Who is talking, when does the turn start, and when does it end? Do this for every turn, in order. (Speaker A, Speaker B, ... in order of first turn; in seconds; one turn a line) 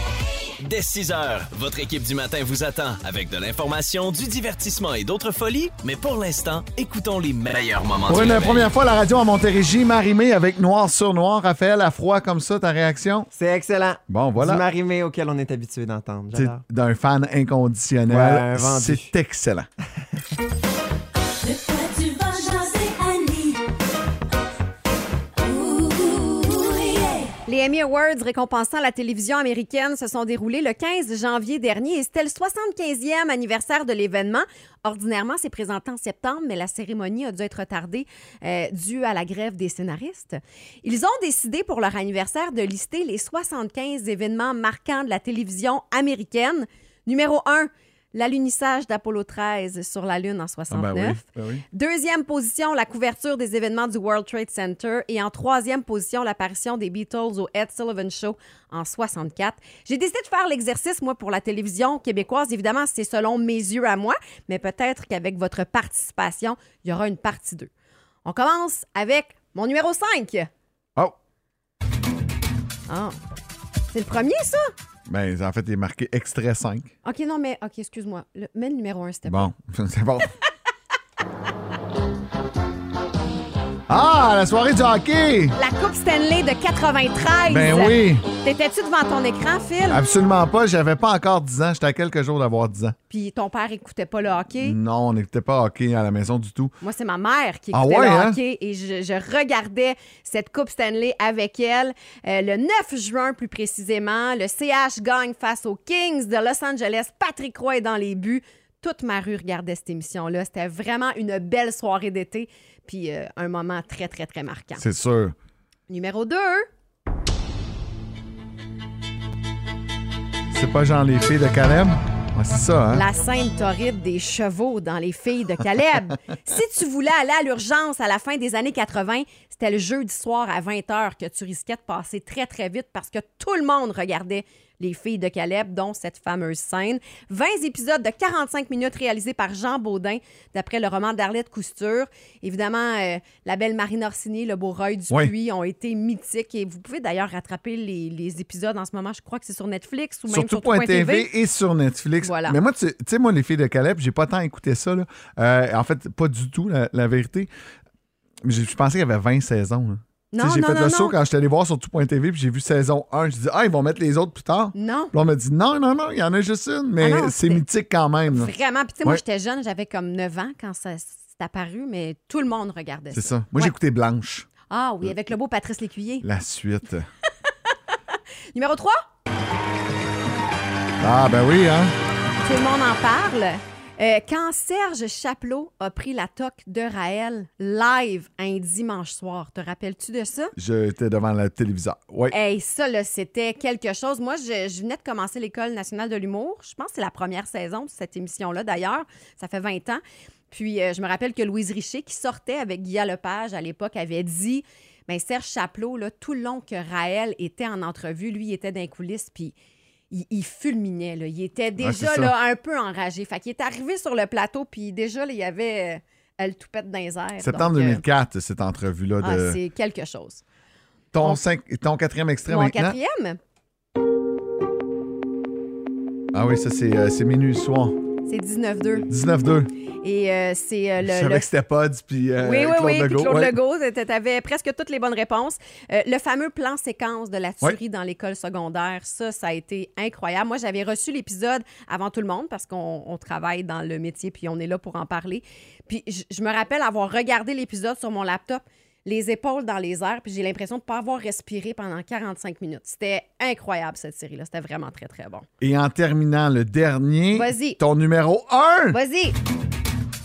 Speaker A: 0.6-8.7
Speaker B: 8.1-13.3
Speaker C: 13.3-16.6
Speaker B: 14.1-14.6
Speaker B: 16.3-19.7
Speaker C: 18.1-19.1
Speaker C: 21.6-23.5
Speaker D: 21.8-23.1
Speaker D: 25.9-27.1
Speaker E: 27.4-67.7
Speaker B: 50.7-51.6
Speaker E: 68.2-70.5
Speaker E: 72.9-73.2
Speaker E: 73.9-74.7
Speaker B: 75.1-76.9
Speaker E: 77.0-79.5
Speaker B: 79.2-80.3
Speaker B: 83.9-85.5
Speaker E: 85.5-90.0
Speaker B: 87.5-88.3
Speaker B: 89.9-92.9
Speaker E: 93.1-94.8
Speaker B: 94.6-96.7
Speaker E: 96.8-114.8
Speaker B: 97.7-98.4
Speaker B: 114.8-115.3
Speaker E: 115.9-116.6
Speaker B: 120.5-123.0
Speaker E: 122.9-151.3
Speaker B: 150.3-157.5
Speaker E: 152.2-152.6
Speaker B: 158.4-168.5
Speaker E: 160.3-161.1
Speaker E: 164.7-165.1
Speaker E: 167.0-167.6
Speaker E: 168.3-173.7
Speaker B: 173.1-174.5
Speaker E: 174.7-176.2
Speaker B: 176.2-177.1
Speaker E: 178.5-179.0
Speaker B: 181.0-181.9
Speaker E: 182.4-190.5
Speaker B: 190.6-192.3
Speaker E: 192.3-209.5
Speaker E: 210.1-218.0
Speaker B: 211.8-212.3
Speaker B: 217.4-219.6
Speaker E: 219.2-220.4
Speaker B: 221.1-223.0
Speaker E: 222.5-223.4
Speaker B: 226.3-227.9
Speaker E: 228.3-229.1
Speaker B: 229.1-229.7
Speaker E: 230.0-231.5
Speaker B: 231.0-233.6
Speaker E: 232.4-255.4
Speaker B: 255.6-259.0
Speaker E: 257.3-257.8
Speaker E: 258.9-259.4